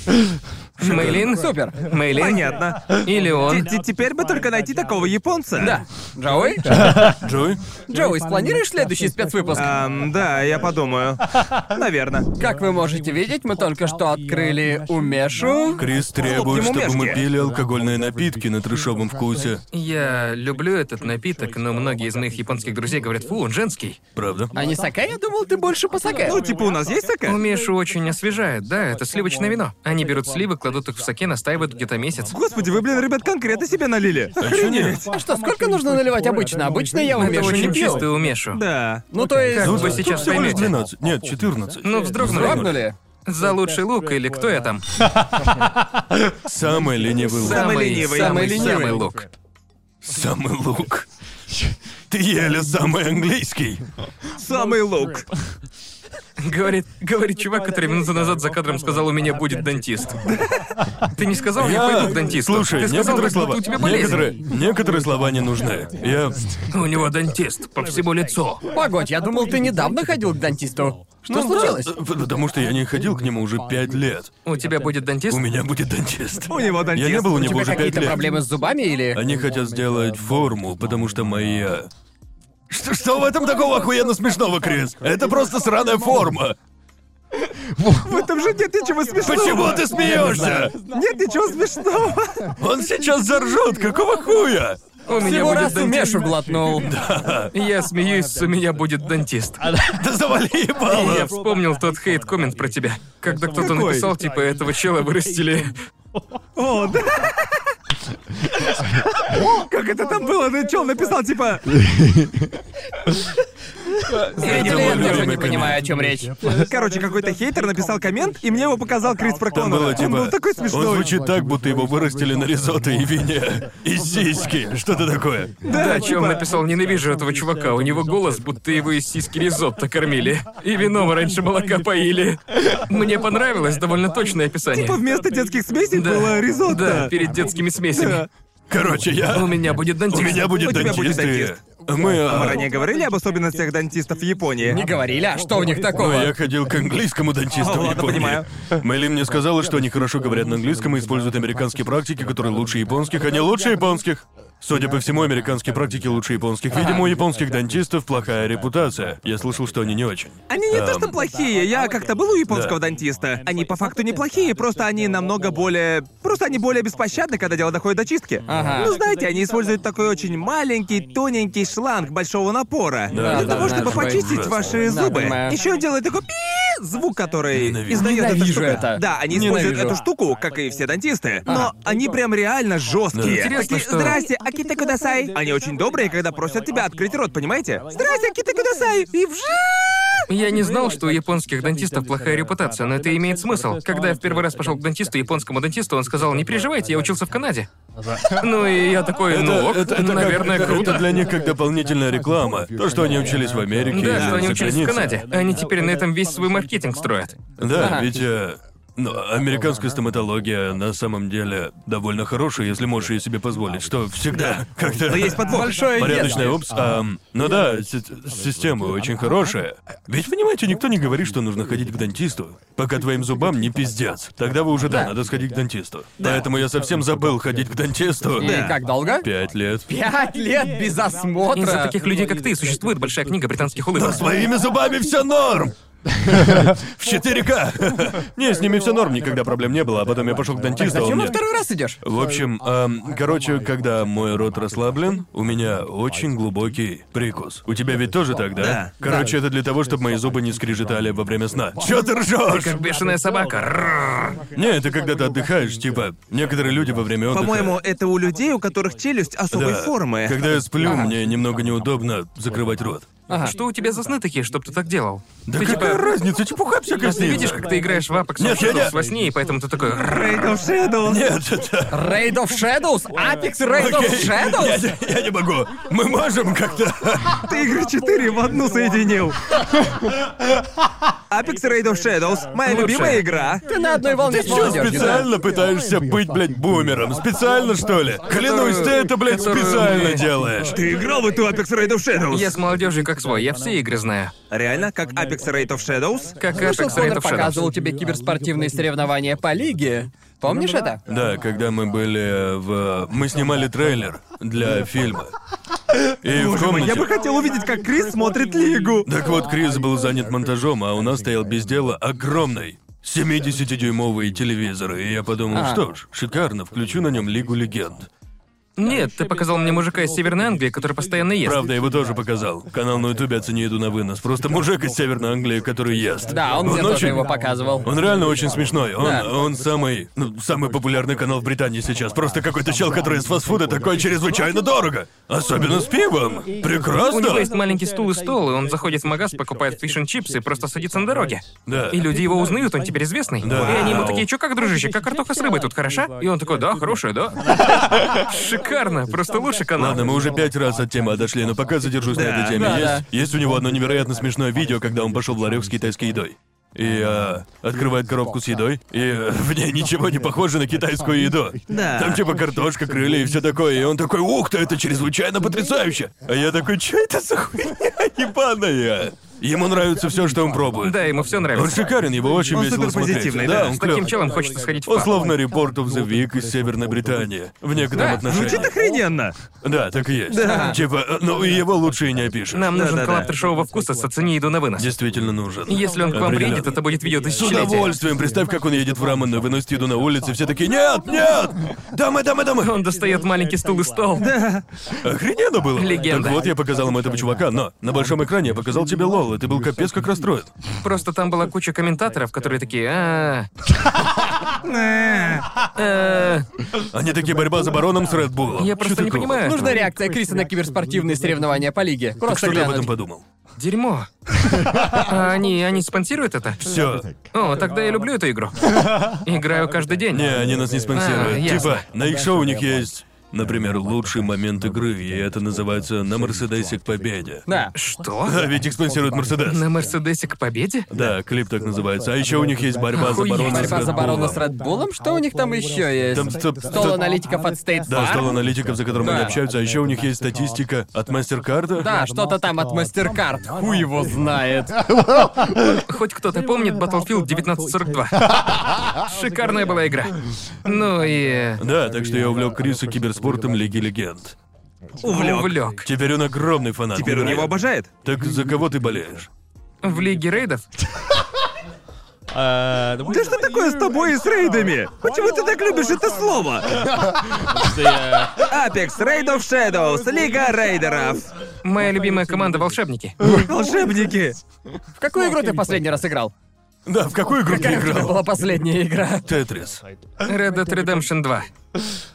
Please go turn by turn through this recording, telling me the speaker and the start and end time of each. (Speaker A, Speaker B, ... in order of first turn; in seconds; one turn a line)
Speaker A: 0.8-3.7
Speaker B: 0.8-1.1
Speaker C: 0.8-1.2
Speaker D: 0.9-1.8
Speaker B: 2.1-5.8
Speaker D: 5.6-6.9
Speaker C: 6.9-7.6
Speaker D: 7.9-9.8
Speaker B: 9.5-12.3
Speaker D: 12.3-15.9
Speaker C: 15.8-19.6
Speaker B: 16.2-17.2
Speaker A: 19.7-24.0
Speaker C: 24.1-24.6
Speaker D: 24.5-26.4
Speaker B: 26.2-27.4
Speaker A: 27.2-32.3
Speaker B: 32.3-35.1
Speaker C: 34.4-35.0
Speaker D: 35.1-38.0
Speaker A: 37.1-38.6
Speaker B: 38.5-39.0
Speaker D: 39.1-40.0
Speaker A: 39.5-40.7
Speaker C: 39.5-42.8
Speaker A: 41.8-44.8
Speaker D: 42.2-43.0
Speaker C: 46.3-47.8
Speaker B: 47.4-48.9
Speaker A: 47.4-49.3
Speaker D: 47.8-49.0
Speaker C: 50.0-51.1
Speaker C: 52.1-53.8
Speaker B: 54.4-55.3
Speaker A: 56.4-60.2
Speaker B: 60.3-60.6
Speaker A: 61.1-64.3
Speaker C: 61.6-66.6
Speaker A: 66.7-68.6
Speaker D: 68.7-71.9
Speaker C: 71.2-74.3
Speaker A: 74.4-75.4
Speaker C: 75.3-78.2
Speaker B: 76.5-77.7
Speaker D: 77.3-79.2
Speaker C: 79.1-81.9
Speaker C: 82.7-86.5
Speaker B: 87.8-92.5
Speaker C: 89.2-90.7
Speaker D: 90.1-90.7
Speaker C: 92.6-94.8
Speaker A: 95.0-96.2
Speaker D: 95.1-96.9
Speaker C: 96.7-97.5
Speaker A: 97.5-99.6
Speaker C: 99.8-101.3
Speaker A: 100.9-105.7
Speaker B: 103.5-104.1
Speaker B: 106.5-107.6
Speaker B: 109.2-111.7
Speaker D: 114.4-116.3
Speaker C: 114.4-115.8
Speaker B: 114.4-115.2
Speaker A: 114.5-115.7
Speaker B: 116.4-121.1
Speaker C: 119.5-125.5
Speaker B: 125.6-126.5
Speaker A: 125.7-135.0
Speaker B: 134.7-137.1
Speaker A: 135.9-138.2
Speaker B: 137.9-138.3
Speaker C: 138.7-142.6
Speaker A: 139.3-140.9
Speaker B: 140.4-141.6
Speaker B: 142.2-144.8
Speaker D: 144.7-146.3
Speaker C: 145.9-161.2
Speaker B: 147.6-148.5
Speaker D: 156.7-157.0
Speaker B: 160.5-190.2
Speaker C: 162.5-162.8
Speaker D: 168.5-169.0
Speaker C: 173.1-174.8
Speaker D: 173.1-174.2
Speaker D: 174.8-175.6
Speaker C: 177.5-178.1
Speaker D: 177.9-180.0
Speaker D: 181.5-181.7
Speaker C: 183.1-183.5
Speaker A: 183.2-184.2
Speaker D: 187.9-189.0
Speaker A: 190.3-197.7
Speaker A: 198.2-201.1
Speaker C: 199.3-205.1
Speaker A: 203.9-207.3
Speaker B: 204.0-204.5
Speaker C: 207.6-229.9
Speaker D: 207.7-208.1
Speaker B: 214.3-216.0
Speaker D: 215.5-216.6
Speaker D: 224.9-225.1
Speaker B: 226.2-226.4
Speaker D: 228.4-229.3
Speaker B: 228.4-228.8
Speaker D: 229.9-231.9
Speaker A: 231.5-234.2
Speaker C: 233.9-241.4
Speaker D: 240.8-242.0
Speaker C: 242.0-252.8
Speaker B: 248.6-248.9
Speaker A: 252.4-254.4
Speaker C: 254.5-257.8
Speaker B: 257.3-260.4
Speaker C: 259.5-263.1
Speaker D: 260.8-261.1
Speaker D: 263.3-263.6
Speaker A: 263.3-266.1
Speaker C: 265.4-267.7
Speaker A: 267.0-270.5
Speaker C: 268.4-269.0
Speaker B: 270.0-271.3
Speaker C: 271.0-272.2
Speaker D: 271.9-274.9
Speaker C: 273.7-277.5
Speaker B: 277.4-279.4
Speaker B: 281.3-283.7
Speaker A: 282.6-283.2
Speaker D: 283.7-285.3
Speaker C: 284.3-290.8
Speaker A: 288.3-290.3
Speaker B: 290.7-292.6
Speaker A: 292.3-294.3
Speaker B: 294.5-296.4
Speaker A: 296.4-297.7
Speaker D: 296.5-301.0
Speaker C: 301.1-305.3
Speaker C: 306.2-307.1
Speaker B: 306.3-309.1
Speaker C: 309.0-318.1
Speaker D: 315.5-315.8
Speaker A: 318.8-321.6
Speaker C: 321.4-327.3
Speaker D: 326.3-327.9
Speaker C: 327.8-337.5
Speaker D: 329.0-329.3
Speaker A: 337.1-350.0
Speaker C: 341.6-342.0
Speaker C: 343.4-344.2
Speaker B: 343.5-344.2
Speaker C: 349.8-371.0
Speaker B: 352.1-352.7
Speaker D: 352.6-353.0
Speaker B: 361.7-362.2
Speaker A: 370.8-371.8
Speaker C: 371.5-374.1
Speaker B: 372.5-373.7
Speaker A: 373.6-375.1
Speaker C: 374.9-378.7
Speaker B: 378.2-379.4
Speaker C: 379.6-382.7
Speaker B: 380.3-380.8
Speaker D: 380.4-380.8
Speaker A: 382.5-384.9
Speaker B: 382.7-383.3
Speaker C: 384.8-386.7
Speaker A: 385.7-387.9
Speaker C: 387.3-392.7
Speaker A: 392.6-394.3
Speaker B: 394.2-394.6
Speaker C: 395.0-400.5
Speaker A: 395.8-396.4
Speaker A: 400.8-403.5
Speaker B: 404.6-405.5
Speaker A: 405.8-406.5
Speaker C: 406.9-409.4
Speaker A: 408.6-409.8
Speaker D: 409.4-412.9
Speaker C: 412.2-413.2
Speaker A: 413.6-414.1
Speaker A: 414.8-416.6
Speaker C: 416.6-417.1
Speaker A: 417.3-420.3
Speaker C: 420.1-427.4
Speaker A: 420.9-421.8
Speaker D: 427.5-427.7
Speaker A: 427.7-428.4
Speaker C: 428.2-429.7
Speaker A: 429.5-430.9
Speaker C: 430.9-434.4
Speaker A: 432.9-434.0
Speaker D: 433.4-438.4
Speaker C: 436.1-437.1
Speaker C: 437.9-441.9
Speaker D: 439.0-439.3
Speaker D: 441.8-444.8
Speaker A: 445.7-448.2
Speaker A: 449.0-451.6
Speaker C: 451.6-454.4
Speaker B: 455.0-455.6
Speaker A: 455.0-455.9
Speaker C: 455.8-459.3
Speaker B: 456.9-457.9
Speaker A: 459.8-460.6
Speaker B: 463.0-466.9
Speaker B: 468.2-471.3
Speaker A: 471.6-473.2
Speaker B: 473.2-474.4
Speaker D: 475.0-476.3
Speaker C: 476.9-478.2
Speaker D: 477.5-479.3
Speaker C: 479.2-479.8
Speaker A: 480.2-481.5